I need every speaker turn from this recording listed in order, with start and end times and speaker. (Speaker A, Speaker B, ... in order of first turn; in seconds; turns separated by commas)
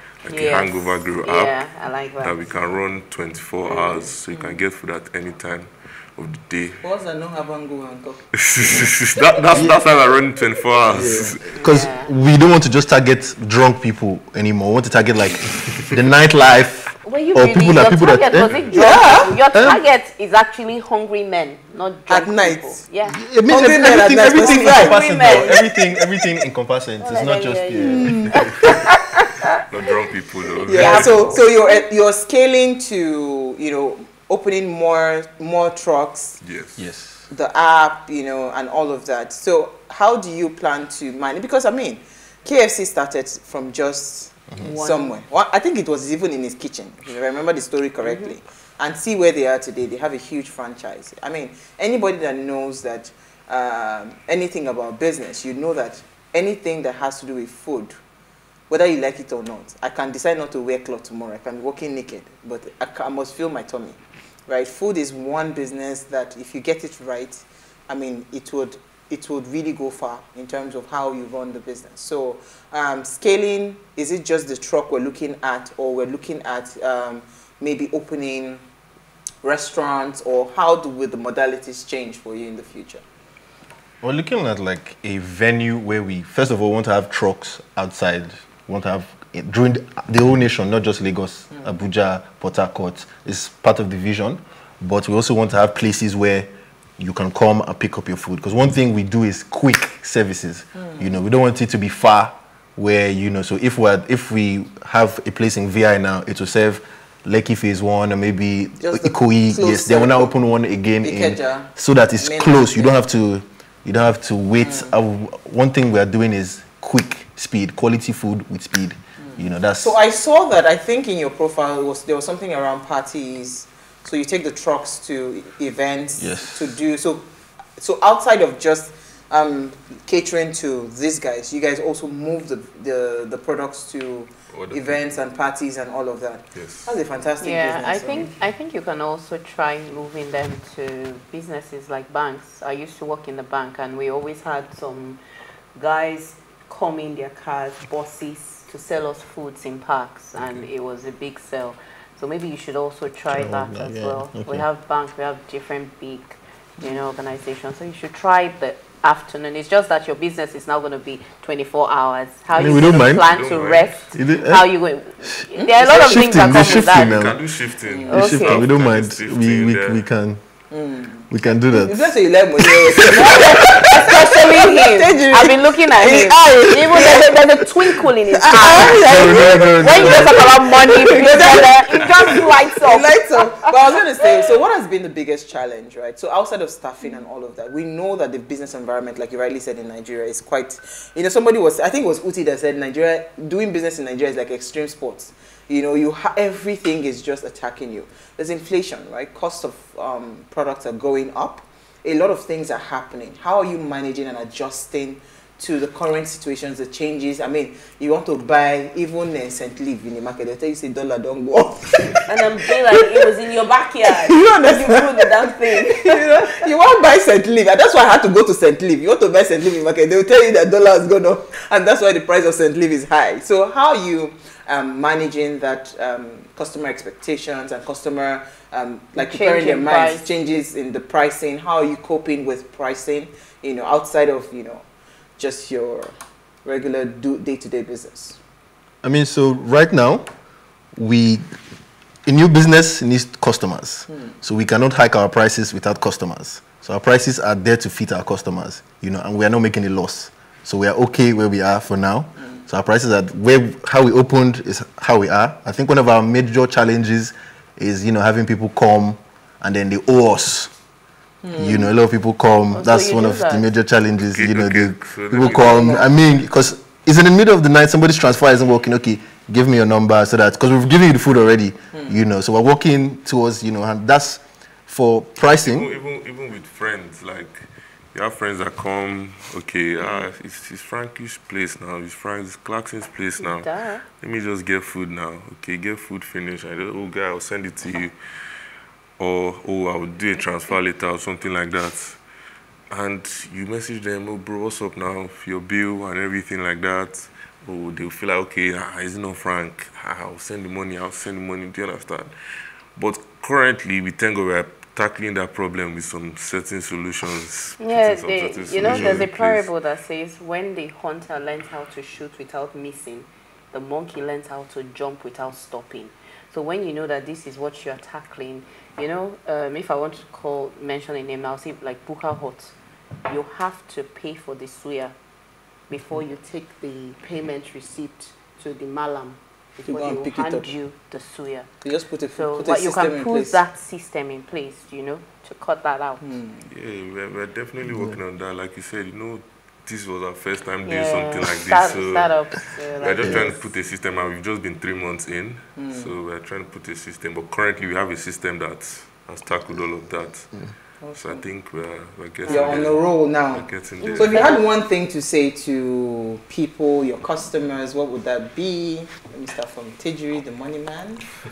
Speaker A: 0.2-1.6, Speaker B: 0.2-2.5, Speaker A: 2.2-6.8, Speaker C: 4.3-4.6, Speaker C: 6.8-8.8, Speaker A: 8.4-11.4, Speaker C: 9.4-9.7, Speaker D: 9.5-9.8, Speaker D: 10.9-19.8, Speaker B: 11.5-12.1, Speaker B: 17.0-23.2, Speaker C: 18.7-19.3, Speaker C: 22.1-22.8, Speaker D: 23.0-28.5, Speaker C: 23.5-25.0, Speaker B: 24.2-26.0, Speaker B: 27.0-29.6, Speaker C: 27.8-28.7, Speaker A: 29.6-31.4, Speaker C: 30.6-36.4, Speaker B: 30.7-31.8, Speaker A: 36.4-36.8, Speaker D: 36.8-37.3, Speaker C: 37.3-58.0, Speaker B: 44.6-45.1, Speaker B: 48.0-48.3, Speaker C: 58.7-78.6, Speaker C: 79.4-83.0, Speaker D: 84.0-120.0, Speaker C: 108.8-110.3, Speaker C: 111.0-113.0, Speaker C: 114.6-114.9, Speaker C: 119.2-127.2, Speaker D: 126.2-126.8, Speaker C: 127.8-138.3, Speaker A: 134.5-135.2, Speaker A: 136.5-137.0, Speaker B: 137.4-145.2, Speaker B: 145.7-167.2, Speaker D: 153.3-154.7, Speaker D: 162.5-163.3, Speaker A: 162.6-163.9, Speaker D: 164.1-164.7, Speaker D: 165.2-167.4, Speaker C: 165.5-165.8, Speaker A: 166.4-170.0, Speaker C: 167.9-168.3, Speaker D: 168.1-170.4, Speaker B: 168.1-168.6, Speaker C: 170.7-212.3, Speaker D: 171.3-172.1, Speaker D: 172.6-173.8, Speaker B: 173.1-184.2, Speaker D: 178.6-180.6, Speaker B: 212.3-216.7, Speaker C: 212.9-213.2, Speaker C: 214.1-234.8, Speaker B: 229.2-230.3, Speaker C: 235.4-236.1, Speaker C: 236.6-238.4, Speaker D: 239.0-240.3, Speaker D: 240.9-241.5, Speaker D: 242.2-260.7, Speaker C: 261.4-261.9, Speaker D: 261.6-275.9, Speaker B: 262.7-263.7, Speaker A: 264.2-266.0, Speaker C: 265.4-266.1, Speaker A: 275.4-288.1, Speaker B: 283.4-284.0, Speaker A: 289.2-292.2, Speaker A: 292.9-302.3, Speaker A: 302.9-309.7, Speaker B: 307.8-322.7, Speaker D: 308.8-309.2, Speaker B: 323.2-325.1, Speaker B: 325.9-331.7, Speaker C: 329.9-330.7, Speaker C: 331.8-333.6, Speaker B: 332.3-336.2, Speaker C: 336.2-336.6, Speaker A: 336.7-342.3, Speaker B: 340.9-343.6, Speaker A: 343.0-354.6, Speaker C: 345.8-346.1, Speaker C: 351.0-351.5, Speaker B: 352.4-352.9, Speaker C: 352.4-361.2, Speaker B: 354.0-354.6